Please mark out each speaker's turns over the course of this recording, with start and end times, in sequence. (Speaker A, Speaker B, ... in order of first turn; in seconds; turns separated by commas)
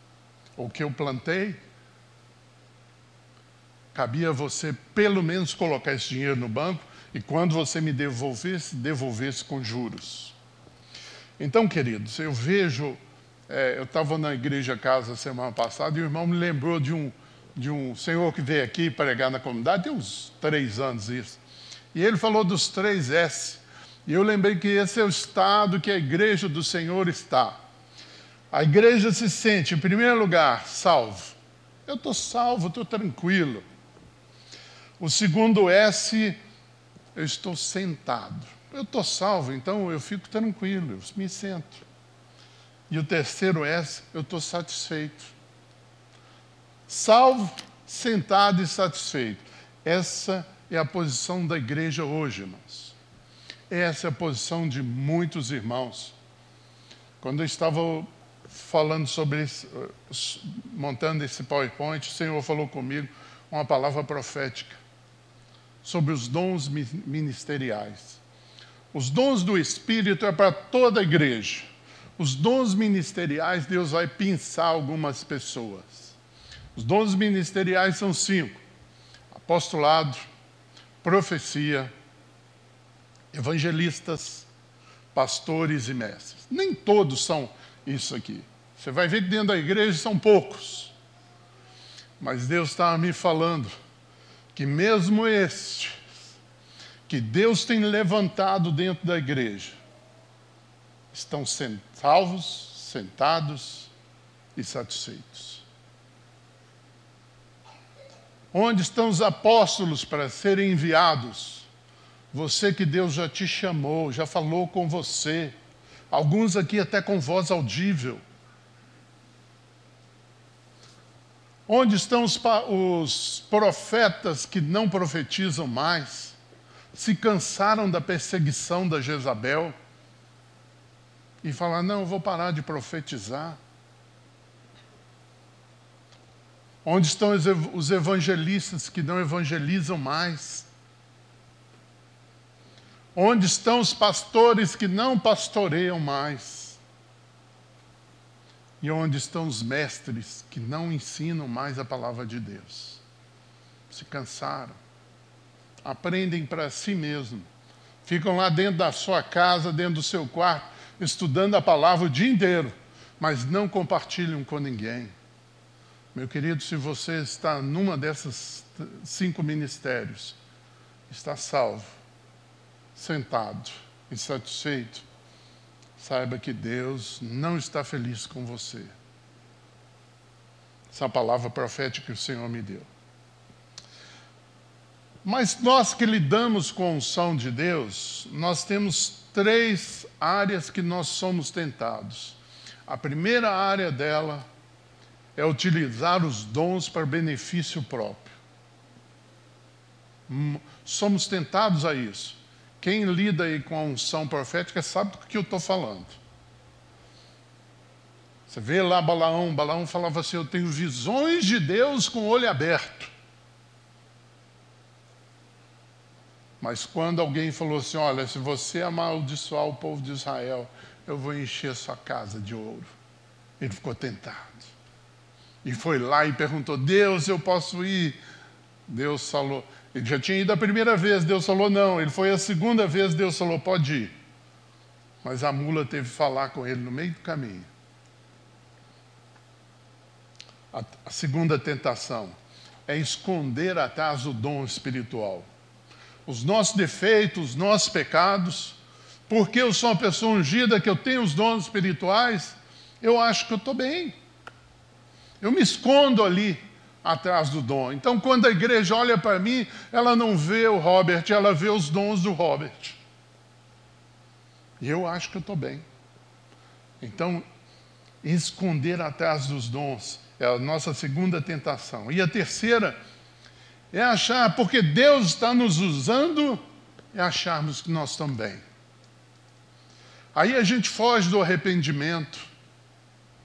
Speaker A: 0.6-1.6, Speaker A: 3.9-10.3, Speaker A: 11.4-21.4, Speaker A: 21.9-27.6, Speaker A: 28.5-33.6, Speaker A: 35.0-36.4, Speaker A: 37.1-41.8, Speaker A: 42.9-45.3, Speaker A: 46.9-52.9, Speaker A: 53.7-56.1, Speaker A: 57.2-64.8, Speaker A: 65.8-68.2, Speaker A: 68.9-76.1, Speaker A: 76.7-78.6, Speaker A: 79.3-80.2, Speaker A: 81.0-81.9, Speaker A: 83.3-84.5, Speaker A: 85.1-90.9, Speaker A: 92.2-93.7, Speaker A: 94.5-96.0, Speaker A: 97.1-99.8, Speaker A: 101.1-103.9, Speaker A: 104.5-105.6, Speaker A: 108.5-111.7, Speaker A: 112.3-115.5, Speaker A: 116.1-118.2, Speaker A: 121.7-126.4, Speaker A: 126.9-129.7, Speaker A: 131.4-133.6, Speaker A: 136.8-140.7, Speaker A: 143.1-146.8, Speaker A: 148.8-153.0, Speaker A: 153.9-154.8, Speaker A: 155.8-157.5, Speaker A: 158.0-165.1, Speaker A: 166.1-170.4, Speaker A: 171.1-171.9, Speaker A: 172.9-175.0, Speaker A: 176.0-178.9, Speaker A: 180.9-182.9, Speaker A: 185.2-194.4, Speaker A: 195.3-198.3, Speaker A: 200.3-206.2, Speaker A: 208.5-213.1, Speaker A: 216.6-222.9, Speaker A: 223.6-224.7, Speaker A: 225.6-228.2, Speaker A: 228.9-234.1, Speaker A: 235.2-237.7, Speaker A: 240.7-245.5, Speaker A: 246.2-254.2, Speaker A: 255.4-263.0, Speaker A: 264.8-265.8, Speaker A: 267.0-267.4, Speaker A: 268.2-273.0, Speaker A: 273.9-276.6, Speaker A: 277.1-278.6, Speaker A: 280.3-282.4